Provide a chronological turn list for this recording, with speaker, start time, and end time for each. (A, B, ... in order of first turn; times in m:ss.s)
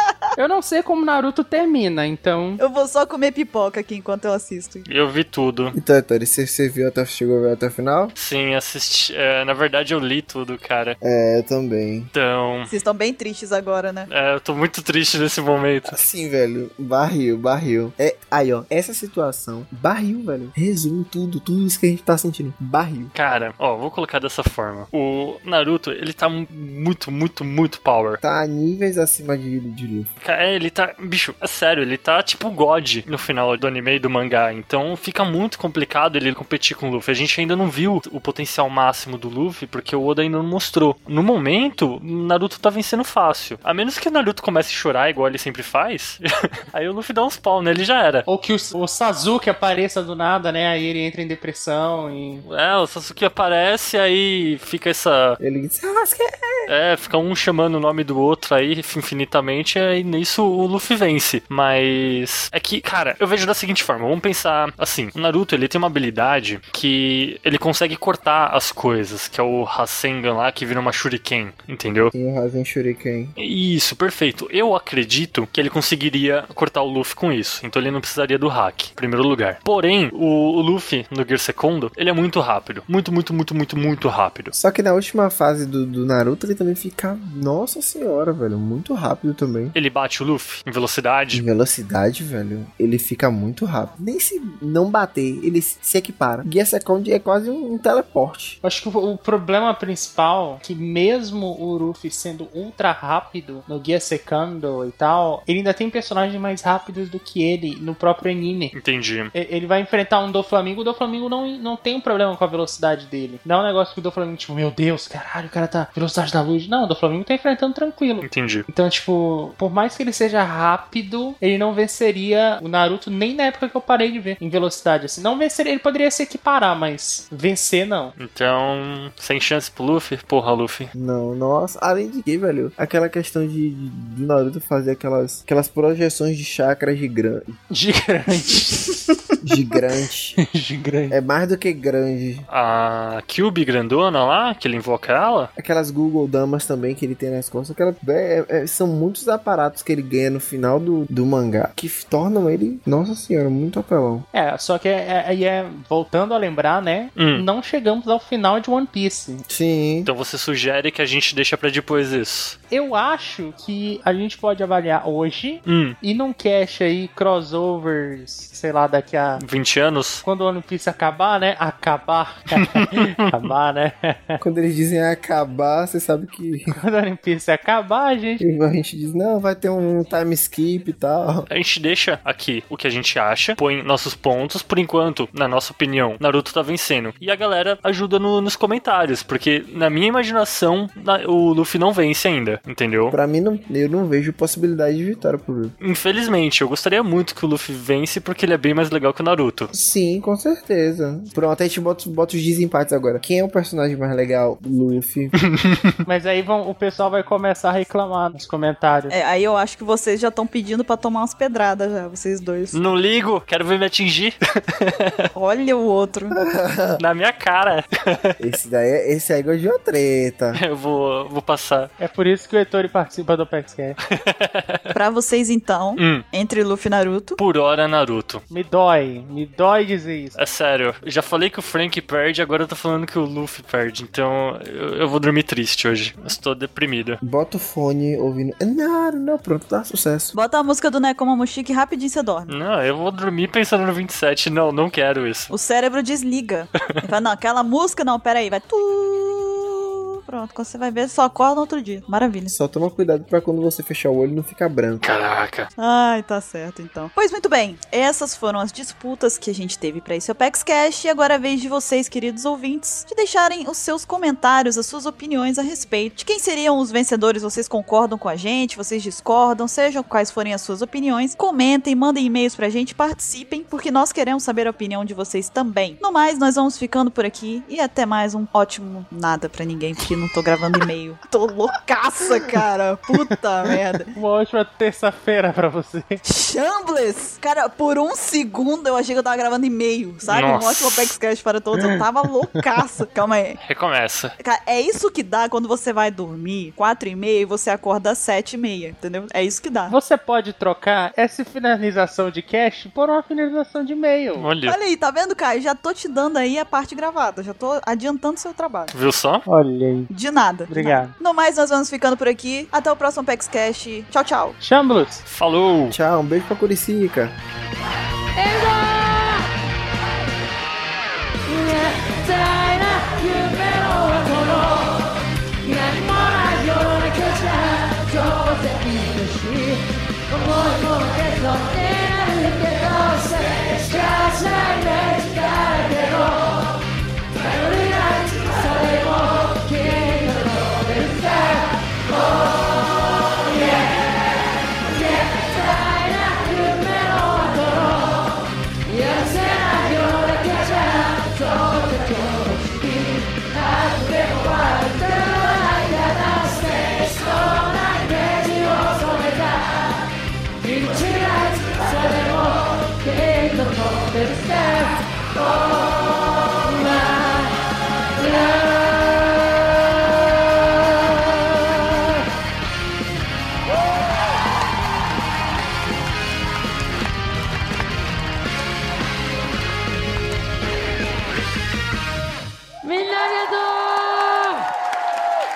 0:00.4-0:02.6 A
0:02.6-0:04.8 B
0:04.9-0:05.7 C
0:05.7-0:08.1 D
0:08.2-0:11.0 C
0:11.0-0:12.1 D
0:12.1-0:12.7 C
0:12.7-0:14.1 B
0:14.1-0:16.0 C
0:15.8-0:23.1 D
0:23.1-0:28.2 C
0:28.2-0:30.1 D
0:30.2-0:48.2 C
0:48.3-0:52.4 A
0:52.4-0:55.4 C
0:55.4-0:56.7 D
0:56.7-1:12.1 C
1:12.1-1:13.3 D
1:13.4-1:24.5 C
1:24.5-1:29.7 D
1:29.7-1:31.4 C
1:31.3-1:38.6 D
1:38.6-1:48.7 A
1:48.7-1:49.3 C
1:49.3-2:08.1 A
1:58.2-1:58.6 C
2:08.2-2:10.9 C
2:10.9-2:17.6 D
2:17.7-2:19.8 A
2:19.4-2:20.4 D
2:20.4-2:21.2 A
2:21.1-2:22.5 D
2:22.5-2:25.5 C
2:25.6-2:34.2 D
2:34.3-2:39.4 A
2:37.2-2:37.4 C
2:39.5-2:40.1 D
2:40.0-2:42.6 C
2:42.7-2:49.4 A
2:45.6-2:46.0 C
2:49.4-2:50.2 C
2:50.2-2:54.4 A
2:52.6-2:53.5 C
2:54.4-2:56.8 D
2:56.7-2:58.4 A
2:58.4-3:01.5 D
3:01.5-3:13.2 C
3:13.1-3:15.7 D
3:15.8-3:19.7 C
3:19.7-3:25.3 D
3:25.4-3:26.0 C
3:26.1-3:29.1 A
3:29.1-3:32.8 B
3:32.7-3:35.2 C
3:35.3-3:36.4 B
3:36.4-3:37.0 D
3:37.0-3:38.3 C
3:38.4-3:40.6 D
3:40.5-3:41.9 C
3:42.0-3:44.0 A
3:44.0-3:44.8 C
3:44.9-3:47.4 B
3:46.0-3:46.2 C
3:47.4-3:48.4 C
3:48.5-3:50.4 A
3:50.4-3:57.2 C
3:57.2-4:00.3 D
4:00.3-4:02.5 B
4:02.5-4:05.5 C
4:05.5-4:12.5 B
4:12.5-4:15.0 D
4:15.0-4:15.7 C
4:15.8-4:44.1 B
4:43.1-4:46.2 A
4:46.2-4:53.6 B
4:50.3-4:51.1 C
4:51.7-4:52.8 A
4:53.6-4:54.3 C
4:54.4-5:00.0 B
4:59.9-5:04.5 A
5:04.4-5:04.8 C
5:04.6-5:08.9 B
5:08.9-5:09.4 C
5:09.4-5:10.1 A
5:10.1-5:14.6 B
5:10.7-5:11.1 A
5:14.6-5:15.2 A
5:15.3-5:16.0 C
5:15.9-5:17.4 D
5:18.4-5:19.4 A
5:21.6-5:23.0 A
5:26.4-5:27.5 E
5:28.1-5:29.6 E
5:31.4-5:33.6 E
5:34.1-5:35.9 E
5:49.8-5:50.2 E
6:00.9-6:01.4 E
6:23.0-6:23.6 E